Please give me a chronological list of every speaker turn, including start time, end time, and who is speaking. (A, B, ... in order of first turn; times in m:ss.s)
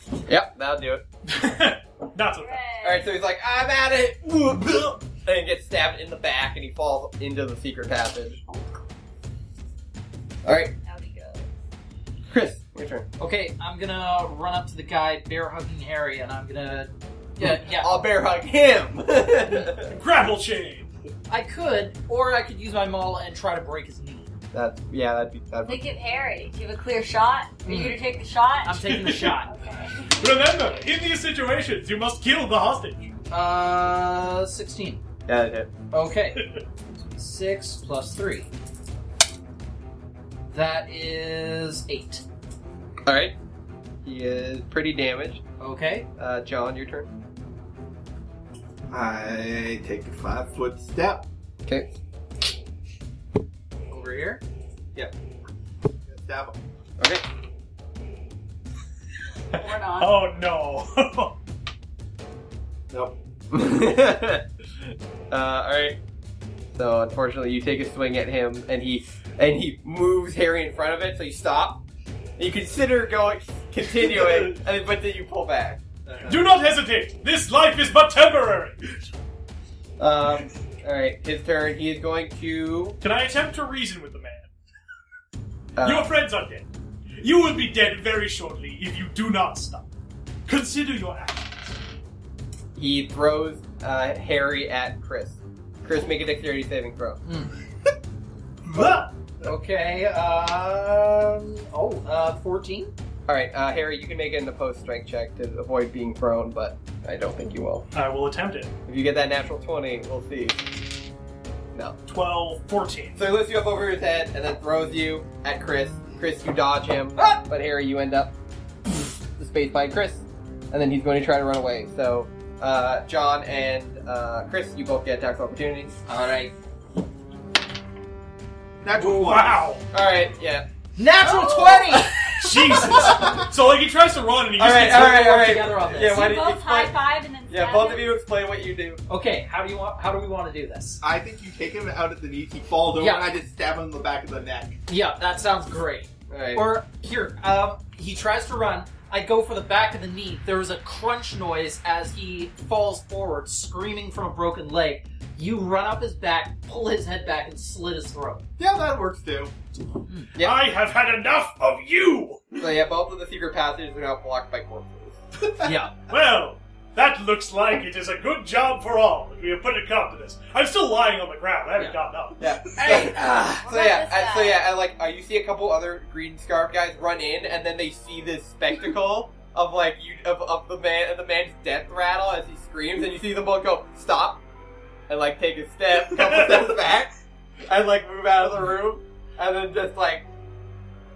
0:00.3-0:01.0 A
0:01.3-0:02.6 B
0:02.4-0:03.1 C
0:02.8-0:08.4 A
0:10.4-0:10.7 A
0:10.8-0:11.5 C
0:12.3-0:13.1 A
0:13.2-0:18.0 D
0:17.4-0:20.0 A
0:19.8-0:20.9 B
0:21.3-0:24.3 D
0:24.5-0:25.8 A
0:25.6-0:30.3 C
0:27.6-0:28.0 D
0:28.6-0:29.5 D
0:28.9-0:29.4 B
0:30.2-0:33.1 B
0:33.3-0:35.0 D
0:35.3-0:35.7 A
0:35.9-0:38.5 D
0:40.5-0:42.2 D
0:43.1-0:43.3 A
0:44.0-0:45.4 A
0:45.6-0:46.1 D
0:46.2-0:47.1 A
0:48.9-0:51.3 E
0:51.7-0:51.9 A
0:53.9-0:54.4 D
0:56.1-0:56.6 E
0:59.5-1:00.2 C
0:59.5-1:01.4 B
1:02.9-1:03.2 E
1:03.5-1:04.4 A
1:05.3-1:06.0 A
1:06.7-1:11.8 A
1:12.4-1:15.8 A
1:16.1-1:16.4 E
1:16.3-1:19.0 B
1:20.0-1:23.0 A
1:23.0-1:24.5 B
1:25.8-1:26.1 A
1:25.8-1:26.7 B
1:27.2-1:29.9 B
1:30.5-1:31.6 B
1:32.8-1:37.2 A
1:37.2-1:37.5 D
1:38.7-1:39.1 B
1:39.4-1:42.9 D
1:43.3-1:47.9 A
1:47.9-1:48.7 B
1:48.9-1:50.6 A
1:52.1-1:53.2 B
1:53.2-1:58.3 A
1:59.4-2:05.9 A
2:06.1-2:06.5 D
2:08.8-2:09.6 E
2:09.0-2:09.8 B
2:09.9-2:10.7 A
2:11.0-2:13.1 D
2:11.2-2:12.0 C
2:11.8-2:13.4 A
2:12.4-2:15.5 B
2:14.6-2:17.0 A
2:14.8-2:16.4 D
2:16.0-2:18.1 C
2:17.5-2:19.0 A
2:19.1-2:21.0 D
2:21.0-2:24.8 E
2:23.0-2:23.3 D
2:24.9-2:38.4 D
2:26.3-2:26.7 A
2:38.6-2:39.5 E
2:40.1-2:40.3 D
2:40.4-2:40.7 A
2:40.4-2:42.7 B
2:42.6-2:45.2 A
2:45.6-2:46.0 D
2:46.0-2:52.4 B
2:52.4-3:04.4 A
2:52.7-2:53.7 D
2:53.6-2:54.6 C
3:05.1-3:07.1 A
3:07.6-3:10.2 A